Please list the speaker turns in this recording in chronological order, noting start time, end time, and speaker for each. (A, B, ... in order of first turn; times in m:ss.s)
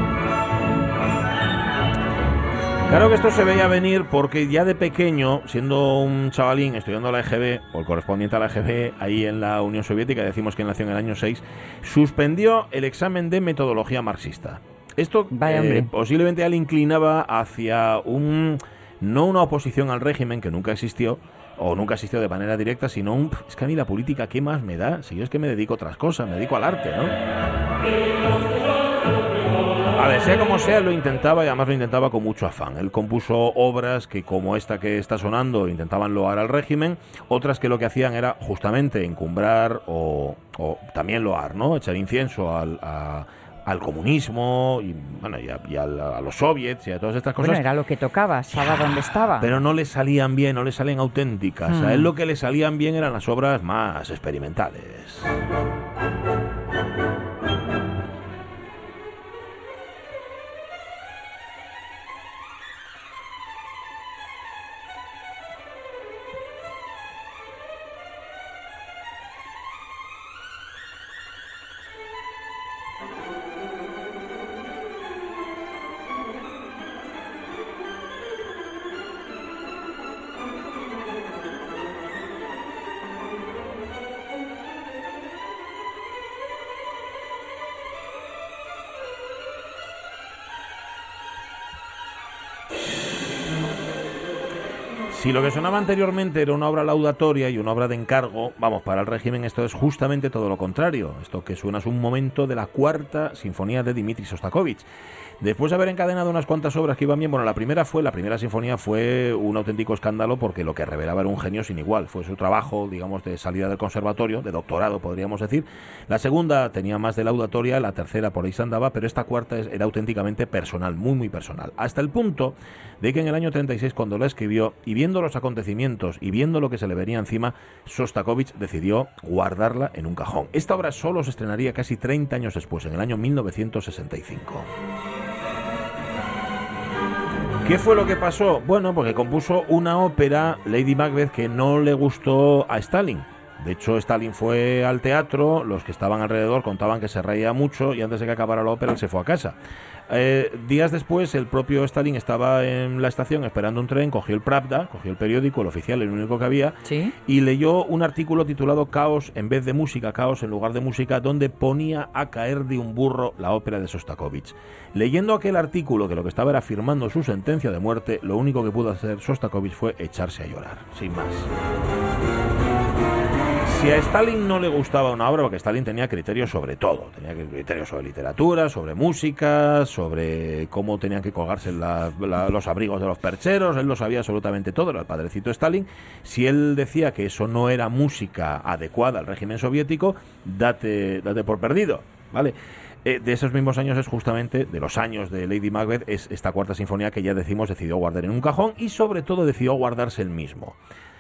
0:02.8-0:27.2 A
0:15.3-0:15.9 B
0:29.9-0:47.7 A
0:47.4-0:49.6 B
0:48.5-0:55.4 A
0:51.7-0:52.1 B
1:35.1-1:44.9 A
1:45.4-2:14.7 A
2:17.6-2:29.6 A
2:30.1-2:51.5 A
2:36.8-2:37.2 B
2:53.6-3:20.8 A